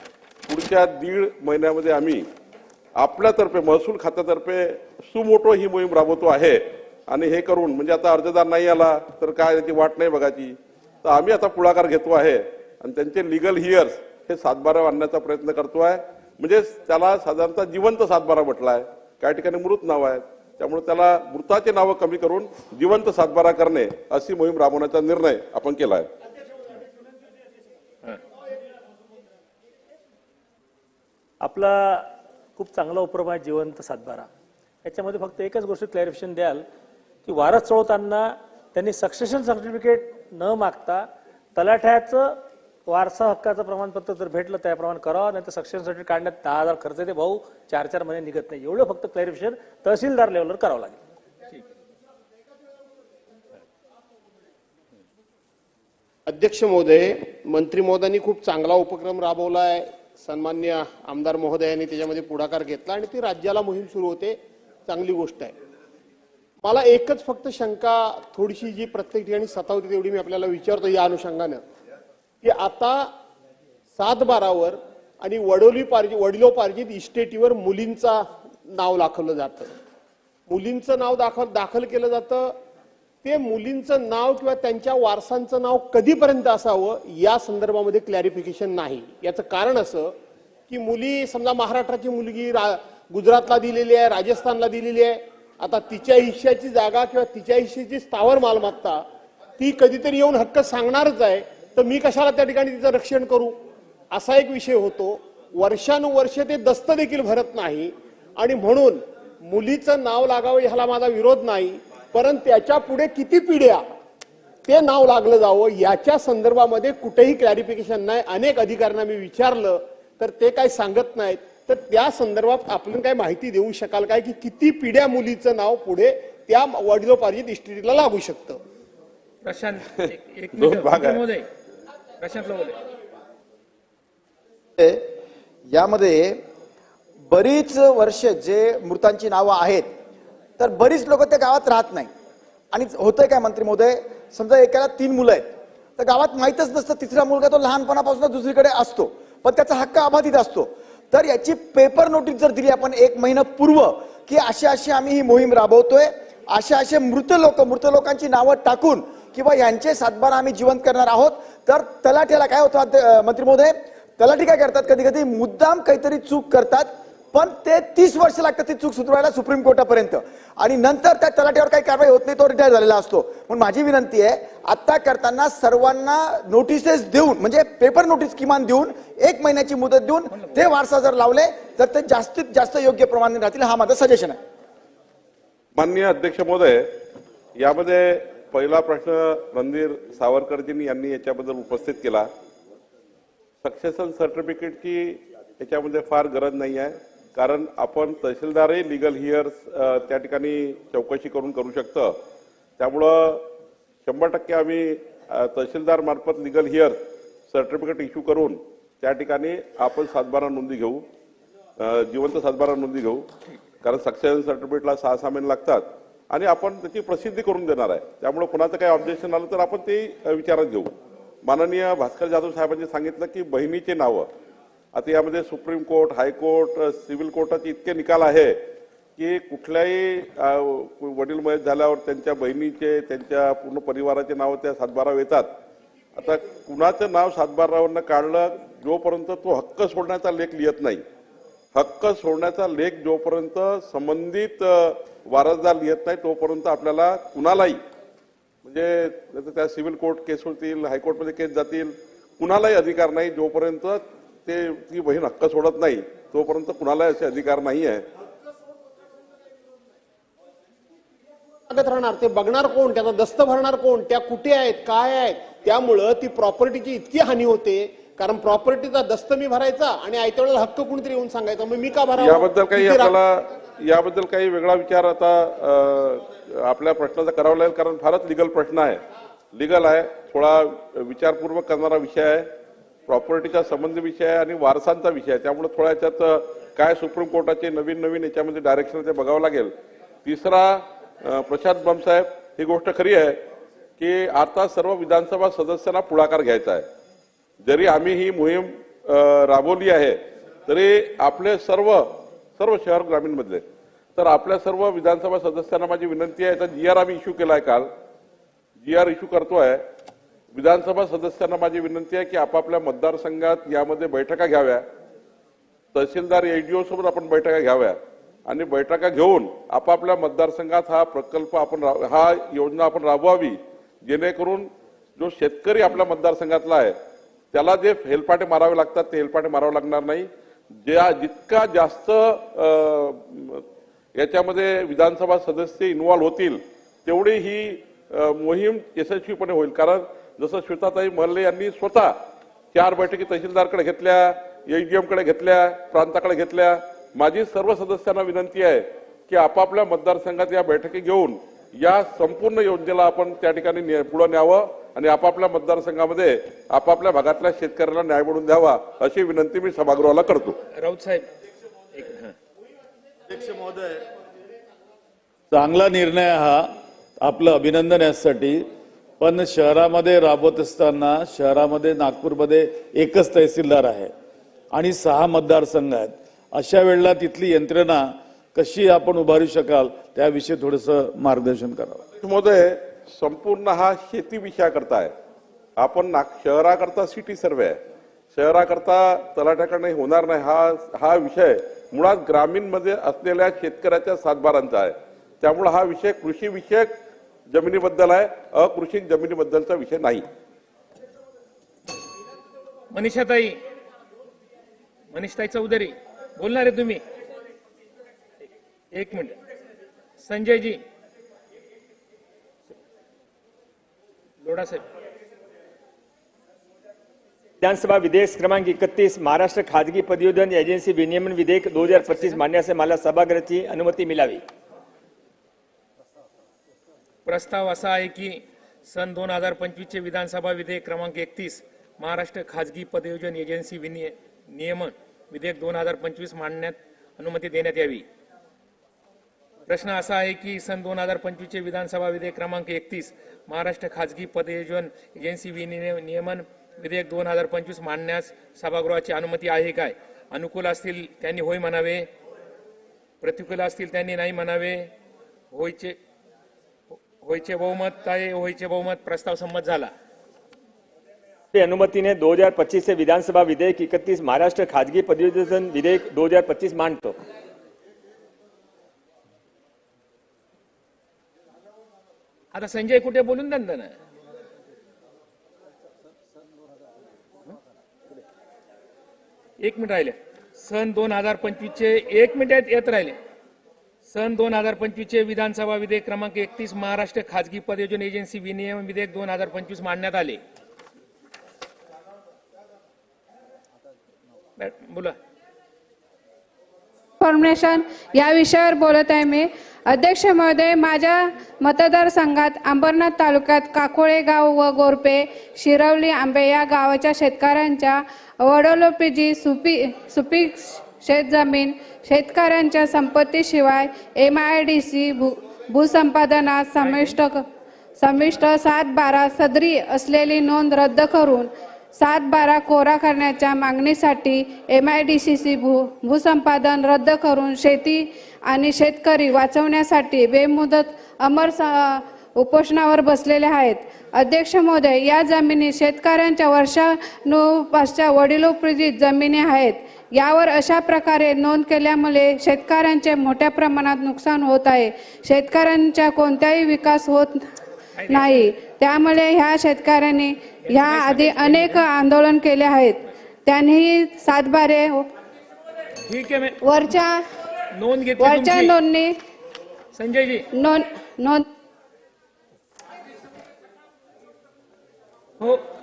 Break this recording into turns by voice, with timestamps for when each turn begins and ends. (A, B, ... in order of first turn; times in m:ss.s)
0:00.5-0:02.3 A
0:03.0-0:26.1 A
0:31.4-0:32.0 B
0:32.6-0:34.3 B
0:34.8-0:36.6 B
0:37.3-0:41.0 B
0:41.6-0:42.3 B
0:42.9-0:51.0 B
0:56.3-1:05.5 C
1:06.6-1:11.6 C
1:12.4-1:13.1 C
1:14.0-1:19.7 C
1:20.5-1:22.6 C
1:23.2-1:30.1 C
1:30.7-1:39.0 C
1:39.6-1:43.6 C
1:44.1-1:53.9 C
1:54.7-2:08.6 C
2:09.4-2:11.5 D
2:10.1-2:11.2 A
2:12.2-2:12.8 D
2:15.7-2:16.4 E
2:17.3-2:19.9 E
2:20.6-2:22.1 E
2:22.7-3:04.4 E
3:05.8-3:06.9 A
3:07.6-3:12.3 A
3:13.6-3:22.2 A
3:22.8-3:23.5 A
3:24.1-3:27.0 A
3:27.5-3:31.0 A
3:31.8-3:33.3 A
3:33.8-3:40.9 A
3:41.4-3:44.3 A
3:44.9-3:48.6 A
3:49.2-3:55.5 A
3:56.2-4:01.0 A
4:01.8-4:07.8 A
4:08.6-4:18.0 A
4:21.7-4:33.1 C
4:32.2-4:39.0 A
4:39.5-4:42.5 A
4:43.1-4:49.7 A
4:50.2-4:53.4 A
4:54.0-4:56.9 A
4:57.6-5:03.6 A
5:04.2-5:07.9 A
5:08.8-5:09.8 A
5:10.5-5:14.8 A
5:15.9-5:27.0 A
5:27.5-5:30.3 A
5:30.8-5:33.6 A
5:34.2-5:42.2 A
5:42.7-6:00.6 A
6:00.8-6:01.3 D
6:02.0-6:02.3 D
6:03.3-6:04.0 F
6:05.5-6:06.7 F
6:07.2-6:08.6 F
6:09.2-6:14.1 F
6:14.7-6:18.0 F
6:18.6-6:22.0 F
6:22.2-6:25.1 A
6:25.8-6:27.8 A
6:28.3-6:36.9 A
6:37.5-6:40.2 A
6:42.9-6:43.6 D
6:45.1-6:47.0 D
6:48.9-6:49.4 D
6:50.2-6:50.8 D
6:54.4-6:54.8 D
6:57.6-7:04.4 G
7:01.8-7:02.4 D
7:07.3-7:18.1 D
7:19.7-7:32.1 D
7:33.2-7:34.9 D
7:35.5-7:36.0 D
7:37.2-7:39.9 D
7:41.5-7:47.2 G
7:52.5-7:53.9 D
7:59.6-8:03.2 D
8:04.1-8:10.4 D
8:14.6-8:15.2 D
8:17.2-8:37.4 H
8:36.8-8:37.2 D
8:38.0-9:07.4 H
9:08.0-9:08.4 D
9:08.1-9:15.1 H
9:10.7-9:11.8 D
9:16.1-9:16.6 D
9:16.6-9:17.2 H
9:17.8-9:18.8 D
9:18.2-9:19.1 H
9:19.9-9:20.5 D
9:20.6-9:21.5 H
9:25.4-9:25.7 D